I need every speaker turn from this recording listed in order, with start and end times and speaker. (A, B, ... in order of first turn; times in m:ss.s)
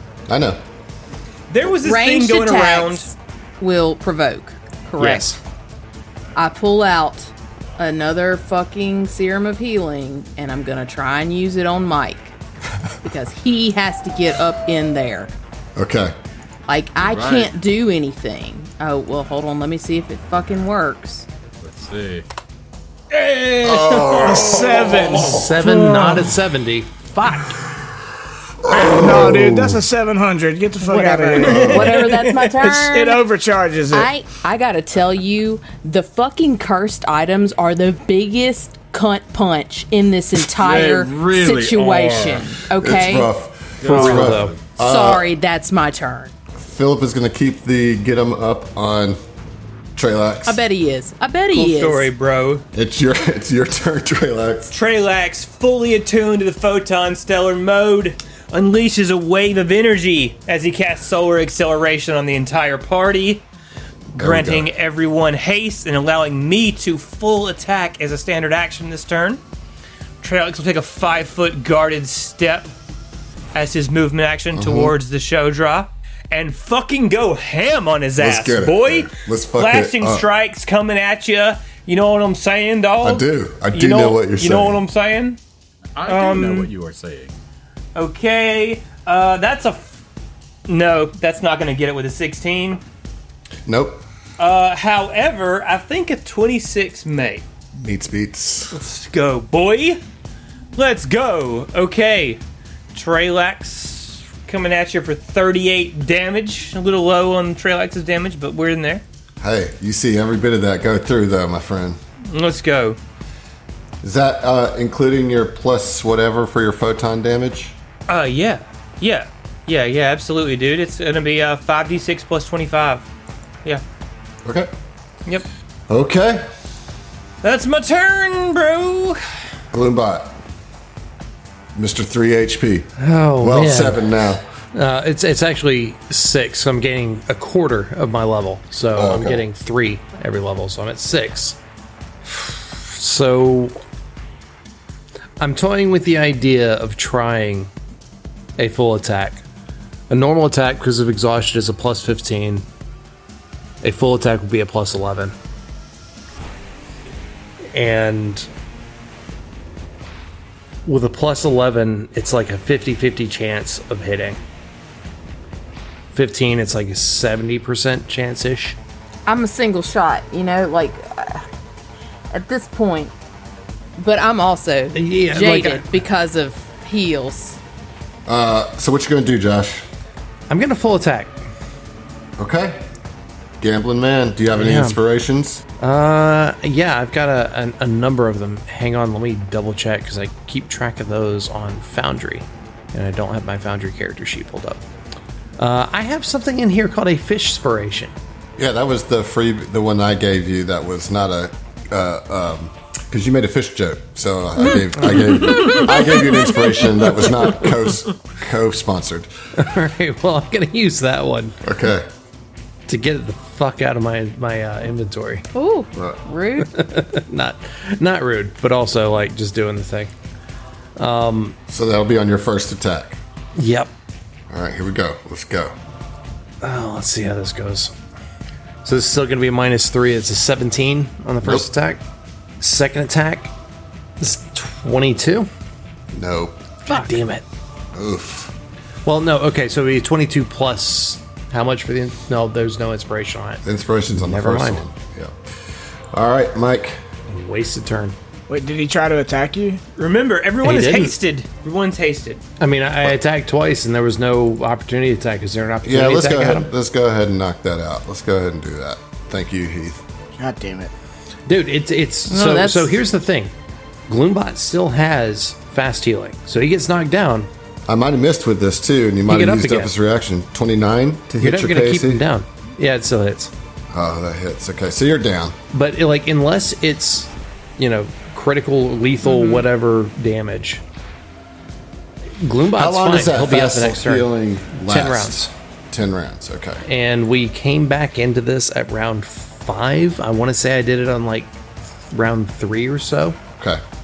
0:00.3-0:00.6 A
0:01.5-0:03.1 B
0:01.7-0:05.4 C
0:05.0-0:05.4 D
0:06.4-0:12.3 C
0:13.0-0:15.3 C
0:15.8-0:16.1 A
0:16.7-0:21.3 C
0:17.0-0:17.5 E
0:21.6-0:22.2 E
0:23.1-0:24.5 B
0:23.6-0:25.3 A
0:24.2-0:25.4 F
0:25.2-0:27.5 D
0:28.6-0:29.7 A
0:28.8-0:32.0 F
0:30.8-0:33.2 C
0:31.4-0:31.9 A
0:31.5-0:32.5 B
0:32.6-0:34.1 F
0:33.9-0:43.3 C
0:40.4-0:42.6 E
0:42.8-0:45.3 A
0:43.8-0:44.5 E
0:43.8-0:44.6 D
0:44.0-0:44.3 C
0:44.8-0:46.3 C
0:46.6-0:49.2 A
0:50.0-0:50.6 A
0:50.5-0:52.1 C
0:51.5-0:52.6 B
0:52.7-0:54.7 A
0:54.7-1:03.4 B
1:04.1-1:09.4 B
1:04.2-1:04.7 A
1:10.2-1:12.7 B
1:13.5-1:25.4 B
1:14.5-1:14.9 A
1:18.2-1:20.2 A
1:23.0-1:24.8 A
1:26.0-1:27.3 E
1:26.0-1:26.7 B
1:27.9-1:30.0 B
1:30.7-1:32.8 B
1:33.6-1:34.0 A
1:34.4-1:37.4 B
1:37.8-1:38.8 A
1:38.7-1:40.0 B
1:40.8-1:42.4 B
1:42.9-1:49.0 B
1:49.4-1:52.0 A
1:52.3-1:53.0 B
1:54.0-1:57.8 A
1:58.1-2:03.0 B
2:04.4-2:04.7 A
2:05.9-2:06.5 A
2:07.4-2:09.2 B
2:09.7-2:10.4 A
2:11.8-2:14.4 A
2:13.0-2:14.0 D
2:14.7-2:21.6 D
2:19.0-2:19.4 A
2:22.3-2:23.8 D
2:25.4-2:27.7 D
2:28.6-2:29.4 D
2:30.1-2:32.6 D
2:33.8-2:35.4 D
2:37.7-2:38.5 D
2:40.8-2:44.4 D
2:46.1-2:48.8 D
2:49.2-2:51.4 C
2:52.3-2:53.1 C
2:54.0-2:57.6 C
2:54.9-2:56.0 D
2:58.3-2:59.8 A
3:00.5-3:01.4 D
3:02.4-3:02.8 A
3:03.6-3:05.6 A
3:04.6-3:05.0 D
3:05.8-3:14.8 D
3:15.6-3:18.1 D
3:18.6-3:29.3 A
3:29.6-3:31.6 D
3:31.6-3:32.1 A
3:32.9-3:35.4 D
3:35.5-3:36.7 C
3:35.9-3:36.2 A
3:36.7-3:40.1 D
3:41.0-3:41.6 D
3:41.7-3:43.2 A
3:43.6-3:43.9 D
3:44.5-3:45.7 A
3:46.6-3:47.9 D
3:48.8-3:52.0 D
3:51.4-3:51.7 A
3:52.6-3:53.5 D
3:54.2-3:55.5 D
3:56.1-3:56.6 A
3:56.9-3:57.4 D
3:57.9-3:58.5 A
3:59.1-4:04.8 D
4:03.6-4:05.4 A
4:06.1-4:07.0 A
4:07.3-4:08.2 D
4:08.5-4:09.8 F
4:10.0-4:12.4 B
4:10.6-4:11.2 D
4:12.6-4:16.7 D
4:15.8-4:20.0 A
4:20.4-4:20.9 F
4:21.5-4:23.5 D
4:22.3-4:23.0 C
4:24.1-4:27.5 D
4:27.9-4:32.2 A
4:29.3-4:29.9 D
4:31.4-4:33.5 D
4:33.9-4:35.6 A
4:35.7-4:40.8 D
4:39.2-4:39.6 C
4:42.4-4:45.5 D
4:42.8-4:46.8 A
4:46.8-4:51.5 D
4:52.1-4:53.4 D